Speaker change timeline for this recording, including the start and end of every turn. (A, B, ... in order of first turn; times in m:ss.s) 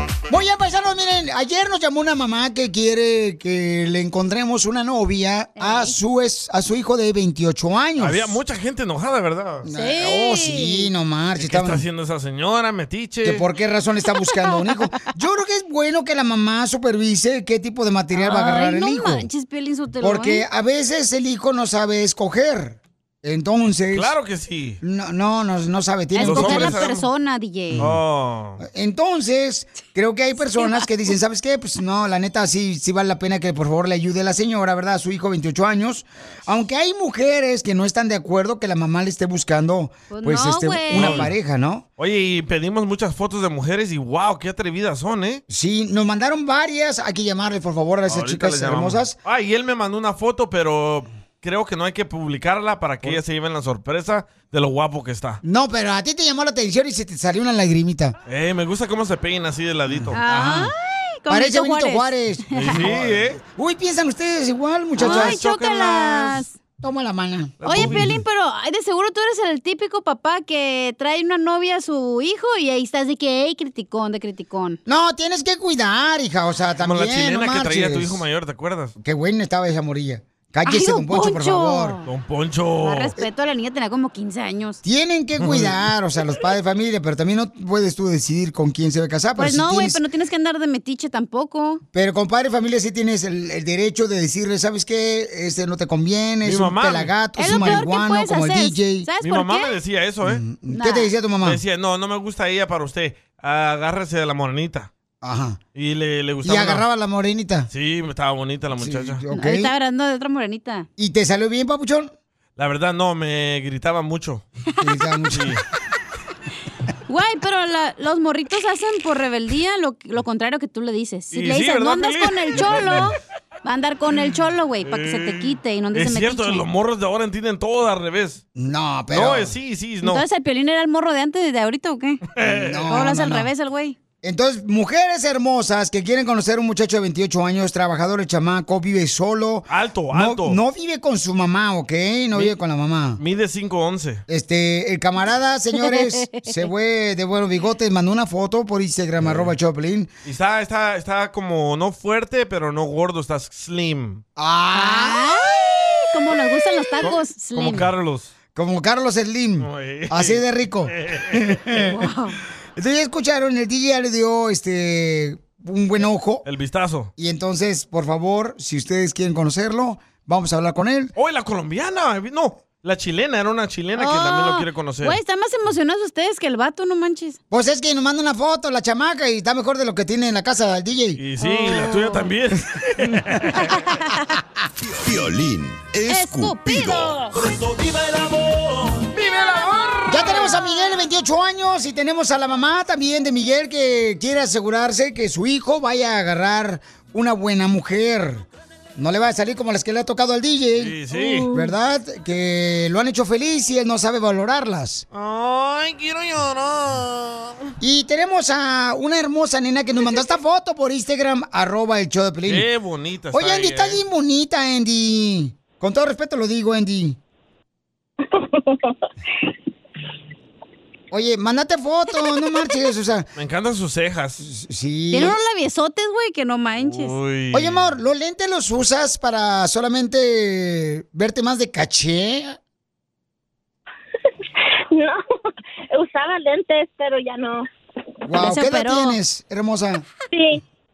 0:00.3-0:08.4 A
0:05.6-0:05.9 B
0:08.0-0:09.6 C
0:09.6-0:11.8 A
0:09.7-0:10.9 B
0:11.4-0:13.4 C
0:13.2-0:19.3 A
0:18.1-0:20.4 B
0:20.0-0:24.1 A
0:23.9-0:24.8 C
0:24.8-0:26.8 A
0:26.1-0:27.8 B
0:26.2-0:27.1 C
0:27.7-0:28.0 A
0:27.8-0:28.6 C
0:28.6-0:41.8 A
0:30.5-0:30.9 B
0:40.1-0:41.2 B
0:40.9-0:41.3 C
0:42.0-0:45.4 C
0:45.5-0:49.2 A
0:48.1-0:55.4 C
0:55.4-0:58.1 A
0:58.2-1:00.2 C
0:59.9-1:00.7 A
1:00.1-1:02.8 B
1:01.3-1:05.4 A
1:02.6-1:03.4 C
1:05.0-1:06.6 B
1:05.0-1:06.4 C
1:06.8-1:08.0 A
1:07.6-1:08.2 C
1:07.6-1:14.8 B
1:14.8-1:18.2 A
1:16.8-1:18.9 C
1:19.0-1:22.0 A
1:20.6-1:22.0 B
1:22.0-1:23.1 C
1:22.8-1:24.8 B
1:24.8-1:30.0 A
1:25.4-1:25.8 C
1:29.4-1:31.8 B
1:31.9-1:39.1 A
1:36.4-1:37.8 C
1:37.4-1:39.8 B
1:39.2-1:40.4 C
1:40.2-1:41.6 A
1:40.7-1:41.1 B
1:41.4-1:44.9 C
1:45.2-1:45.6 A
1:45.8-1:46.8 C
1:46.4-1:47.7 A
1:47.7-1:49.2 C
1:48.8-1:49.7 A
1:49.3-1:50.9 B
1:51.0-1:52.1 A
1:52.6-1:54.4 C
1:54.8-1:55.6 A
1:55.3-1:55.6 C
1:57.1-2:06.6 B
2:01.3-2:03.1 C
2:04.8-2:08.4 C
2:08.6-2:09.5 A
2:09.1-2:10.2 C
2:10.0-2:12.2 B
2:12.4-2:12.9 C
2:12.4-2:13.5 A
2:12.9-2:14.0 B
2:14.2-2:23.2 A
2:19.7-2:20.6 C
2:23.2-2:24.2 C
2:24.3-2:30.1 A
2:25.9-2:26.5 B
2:29.2-2:29.5 C
2:30.2-2:34.2 C
2:34.4-2:35.3 A
2:34.7-2:37.9 B
2:37.0-2:38.3 C
2:38.5-2:42.0 A
2:39.6-2:41.6 C
2:41.9-2:42.4 B
2:42.8-2:46.4 A
2:46.4-2:47.1 C
2:47.2-2:51.1 A
2:51.2-2:55.2 C
2:54.0-2:57.4 B
2:57.5-3:01.2 A
3:01.2-3:03.8 C
3:01.4-3:02.2 B
3:03.7-3:04.3 B
3:04.8-3:07.2 D
3:06.0-3:07.3 B
3:09.1-3:11.0 B
3:10.0-3:20.9 A
3:20.8-3:21.5 C
3:21.1-3:21.7 B
3:21.5-3:25.0 A
3:25.1-3:27.7 C
3:27.8-3:32.7 A
3:32.4-3:34.0 C
3:33.3-3:37.2 A
3:41.1-3:43.3 A
3:43.4-3:44.4 C
3:44.4-3:45.4 A
3:45.1-3:47.1 B
3:46.8-3:47.9 C
3:47.5-3:52.6 A
3:54.9-3:55.2 E
3:55.9-3:57.6 E
3:58.2-4:00.0 A
3:58.4-3:59.2 B
4:00.3-4:00.6 E